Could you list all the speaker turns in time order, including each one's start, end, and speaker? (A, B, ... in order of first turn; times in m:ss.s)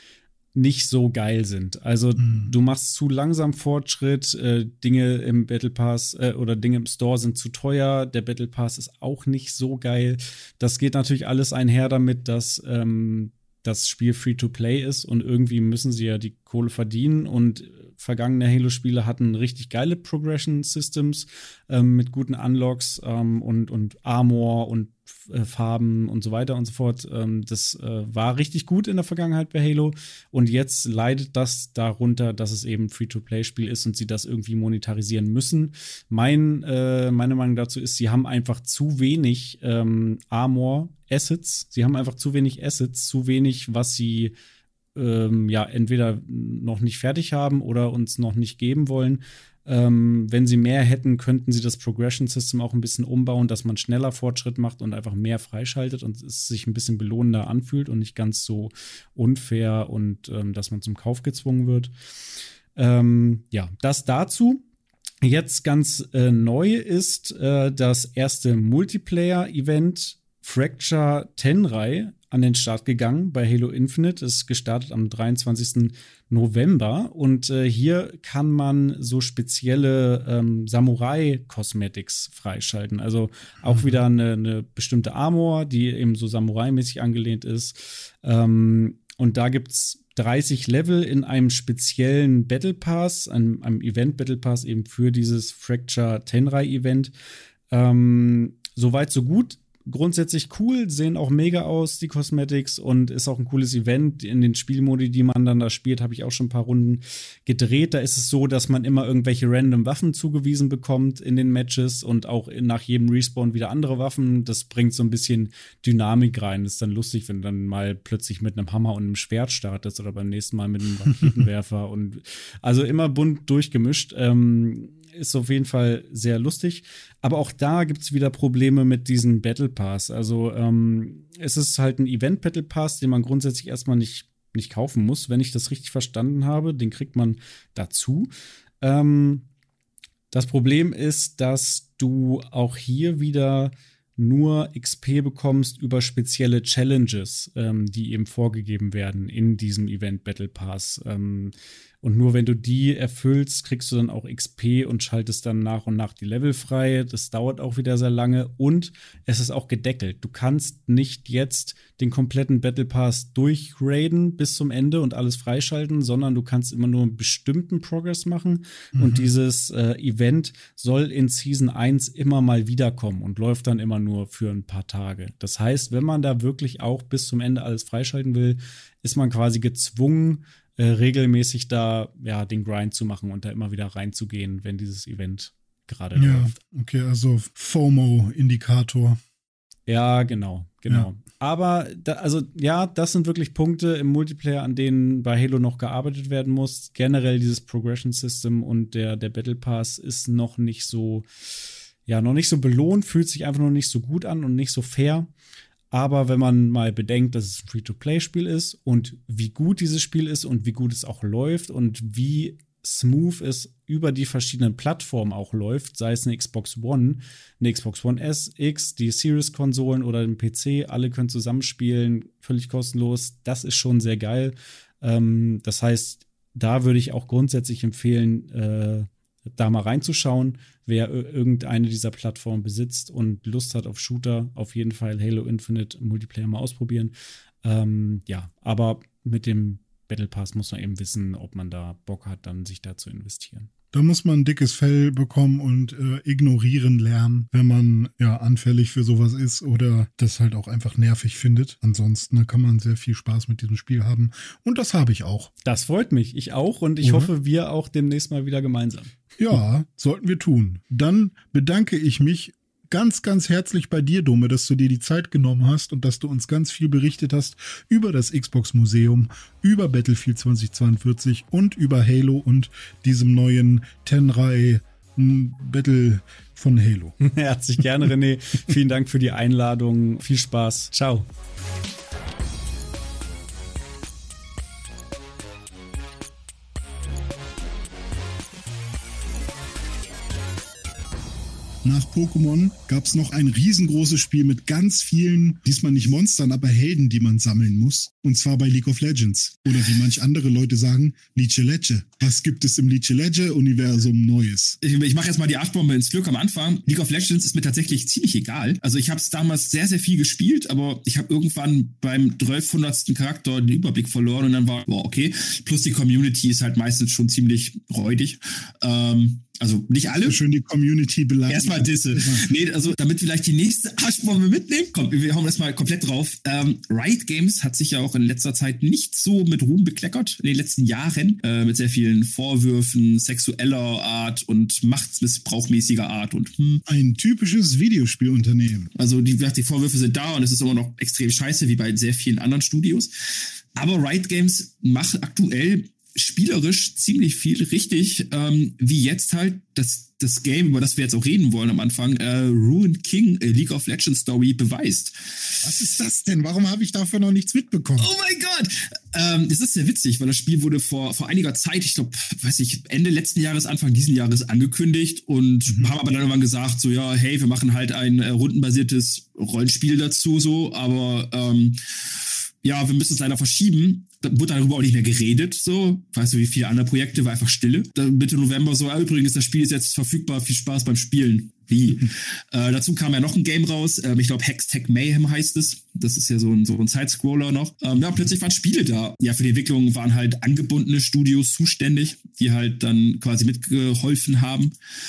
0:00.5-0:44.3 A
0:02.2-0:02.5 B
0:44.9-1:01.9 A
1:02.7-1:04.6 A
1:05.2-1:37.1 A
1:23.7-1:24.0 B
1:37.7-2:18.3 A
2:18.8-2:19.4 A
2:20.3-3:06.6 A
2:48.9-2:49.3 B
3:06.2-3:09.2 B
3:09.9-3:21.2 A
3:22.0-3:25.3 A
3:25.9-4:03.7 A
4:03.9-4:15.5 B
4:15.6-4:19.1 A
4:17.0-4:17.3 B
4:19.4-4:37.1 B
4:37.2-4:41.3 A
4:51.8-5:04.8 B
5:04.8-5:20.4 C
5:20.2-5:22.4 B
5:21.5-5:36.8 C
5:36.8-5:38.9 B
5:38.9-5:55.6 C
5:55.6-5:58.1 B
5:58.0-6:11.8 C
6:05.7-6:05.9 B
6:12.6-6:34.7 C